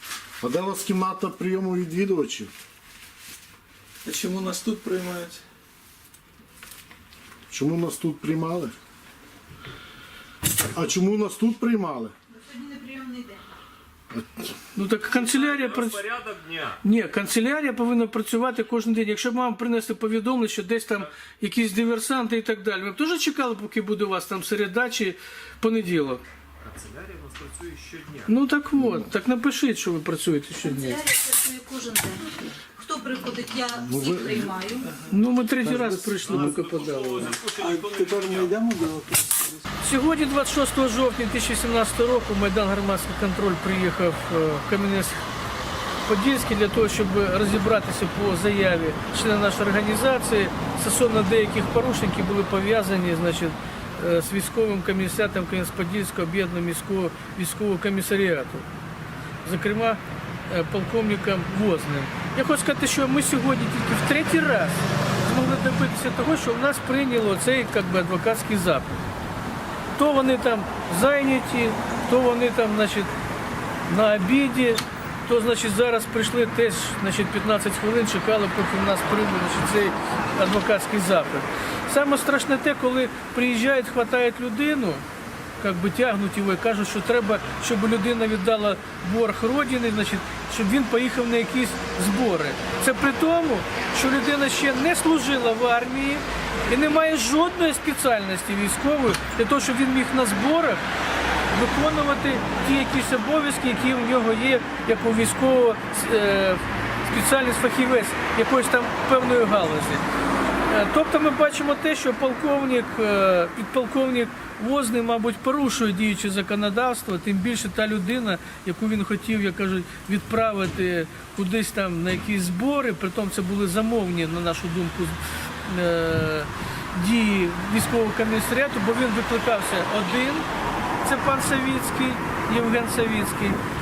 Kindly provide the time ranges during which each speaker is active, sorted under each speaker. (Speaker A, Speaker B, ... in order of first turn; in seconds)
Speaker A: 0.4-2.5, 7.5-8.7, 10.7-12.1, 14.1-14.5, 33.7-34.6
Speaker B: 4.0-5.4, 34.8-35.1, 35.8-36.3, 37.5-39.6
Speaker C: 12.4-13.4, 31.0-34.8
Speaker D: 14.8-16.1, 16.8-26.2, 28.3-31.0, 35.1-37.3, 39.8-45.2, 46.0-58.7, 59.4-69.0, 69.9-73.1, 73.9-85.0, 85.6-100.8, 101.5-110.0, 110.7-130.5, 131.0-133.6
Speaker E: 15.1-16.8, 26.6-28.3, 36.2-38.6